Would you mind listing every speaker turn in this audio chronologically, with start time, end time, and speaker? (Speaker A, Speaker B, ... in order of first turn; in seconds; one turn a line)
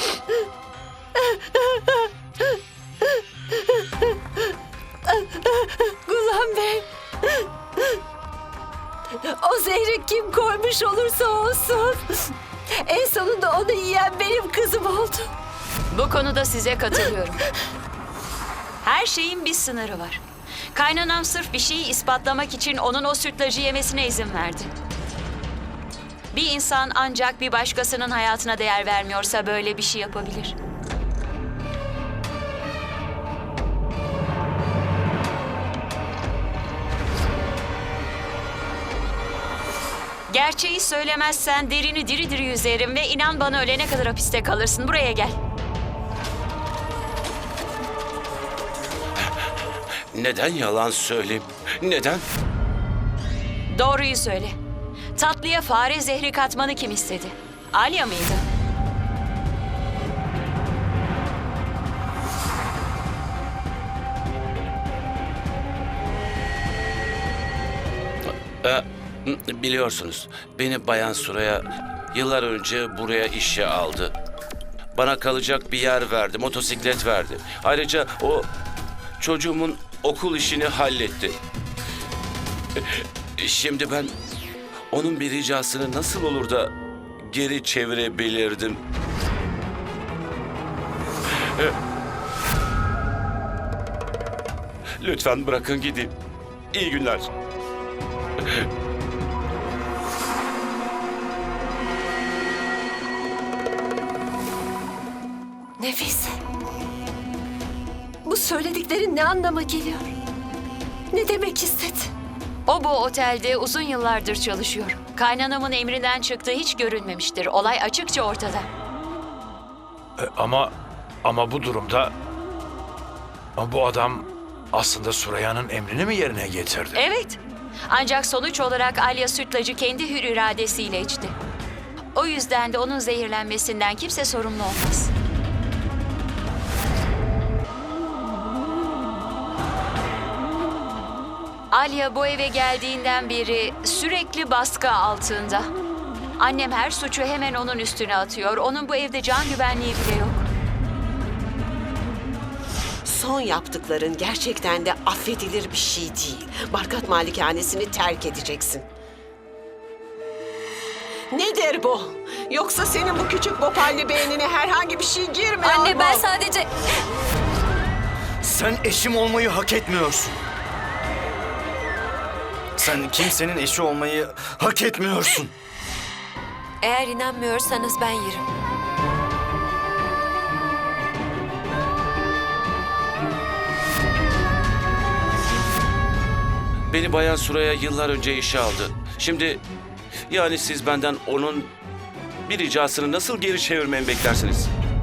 Speaker A: 5.1-7.4
Speaker A: 9.2-15.3
Speaker B: 15.9-17.4
Speaker B: 18.8-20.2
Speaker B: 20.7-24.7
Speaker B: 26.3-30.5
Speaker B: 40.3-45.4
Speaker C: 50.1-52.2
Speaker B: 53.7-54.5
Speaker B: 55.1-58.4
Speaker C: 68.6-74.1
Speaker C: 74.9-78.5
Speaker C: 79.2-81.4
Speaker C: 82.8-84.1
Speaker C: 84.9-88.8
Speaker C: 95.0-96.1
Speaker C: 96.7-97.3
Speaker A: 105.8-106.3
Speaker A: 108.2-110.1
Speaker A: 111.1-112.1
Speaker B: 112.7-118.7
Speaker D: 120.2-122.1
Speaker D: 123.5-127.0
Speaker B: 126.9-131.3
Speaker B: 132.1-135.1
Speaker B: 141.7-145.7
Speaker B: 146.4-150.5
Speaker E: 153.0-158.9
Speaker E: 161.3-166.3
Speaker A: 165.6-166.6
Speaker F: 168.4-170.4
Speaker F: 172.8-175.5
Speaker A: 176.8-178.4
Speaker C: 186.9-189.6
Speaker C: 190.3-191.7
Speaker C: 192.4-194.7